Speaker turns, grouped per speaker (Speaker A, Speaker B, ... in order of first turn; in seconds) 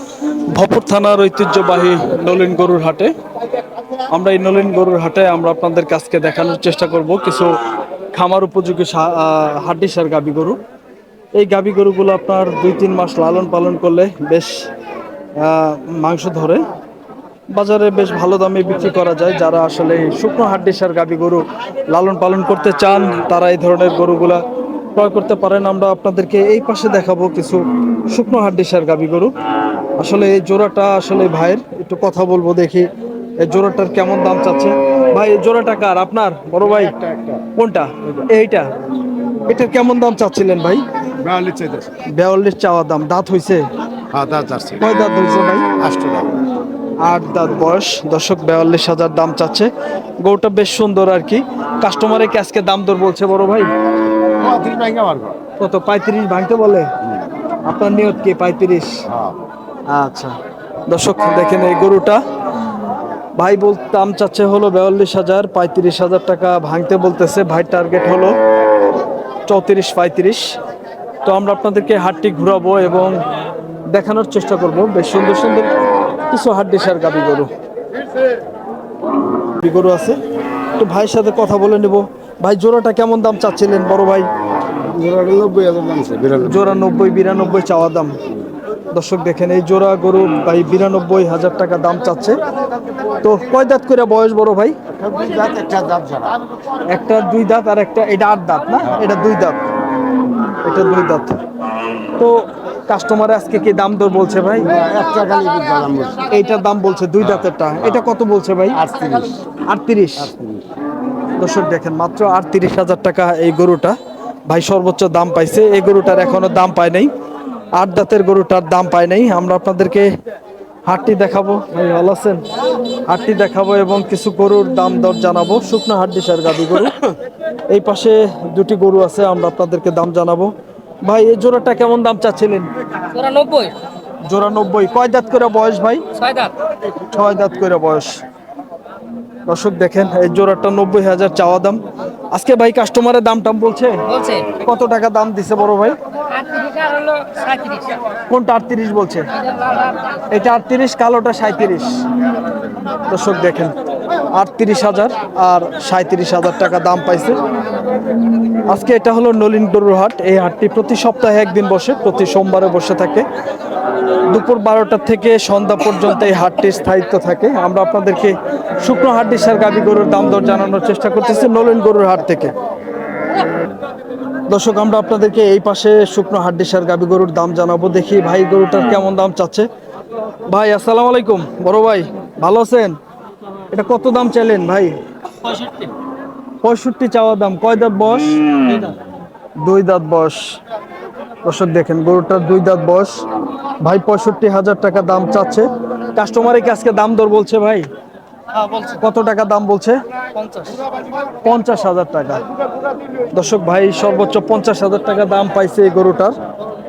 Speaker A: 0.5-3.1, 4.1-7.6, 8.1-10.6, 11.3-14.7, 15.4-16.6, 17.5-24.4, 24.9-29.3, 30.0-38.7, 39.5-40.9, 42.0-43.6, 44.8-45.7, 47.0-53.7, 55.6-56.9, 57.6-59.0, 59.9-62.2, 63.4-68.3, 69.5-70.6, 71.2-73.2, 73.9-77.5, 79.5-80.2, 80.8-84.3, 86.4-88.2, 88.9-92.4, 93.2-94.8, 96.8-99.6, 100.6-101.4, 102.2-104.8, 106.2-108.9, 109.6-110.4, 111.4-117.1, 117.7-120.1, 120.8-122.4, 123.0-127.1, 127.7-132.7, 134.2-136.1, 136.9-138.2, 139.4-146.0, 148.3-149.3, 150.3-152.0, 153.1-153.8, 154.3-157.4, 158.6-163.3, 164.2-172.5, 174.5-179.7, 180.4-183.0, 183.7-185.0, 186.6-188.9, 189.6-190.6, 191.4-193.2, 193.8-197.9, 198.8-200.8, 201.4-202.4, 203.3-206.3
Speaker B: 41.3-41.9, 44.2-44.7, 45.8-46.3, 54.4-55.3, 84.9-86.4, 95.0-96.4, 104.7-106.2, 108.8-109.4
Speaker C: 133.1-133.8, 136.2-136.5, 144.1-144.5, 146.3-148.0